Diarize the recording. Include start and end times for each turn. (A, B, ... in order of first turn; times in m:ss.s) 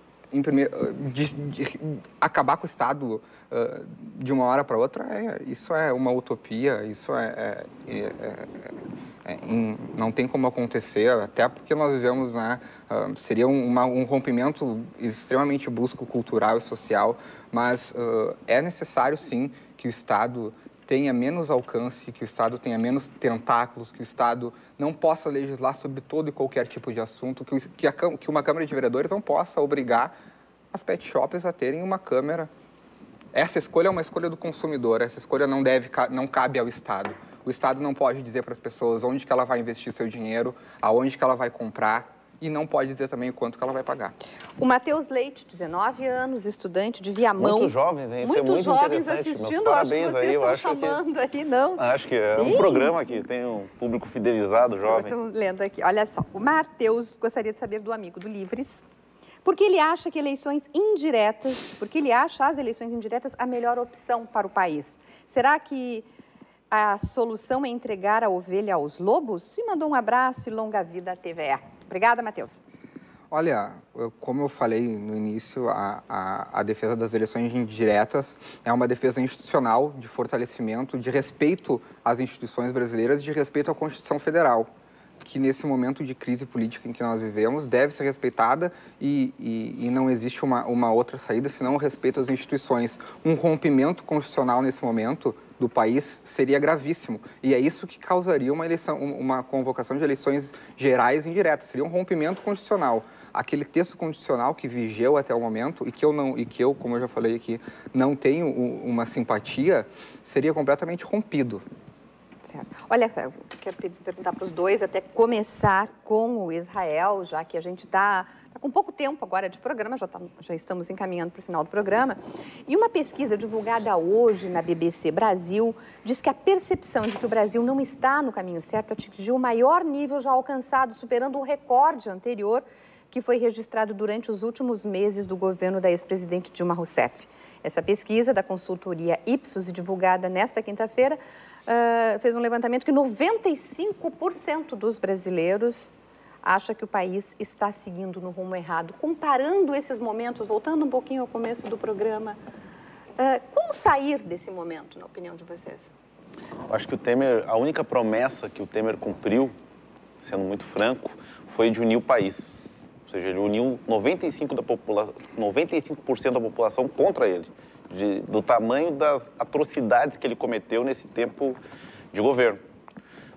0:00.3-0:30.1 A
0:30.7-0:32.5 A
0:33.3-0:44.1 A
0:44.6-0:51.8 B
0:47.4-0:51.0 C
0:51.8-0:55.1 C
0:52.3-0:53.0 B
0:54.8-0:58.8 B
0:59.4-1:06.0 B
1:06.7-1:12.6 B
1:13.3-1:24.7 A
1:25.2-1:51.6 A
1:52.4-2:32.4 B
2:33.2-2:35.9 B
2:36.7-2:39.5 C
2:40.2-2:42.5 C
2:43.1-2:51.6 C
2:52.1-2:52.6 C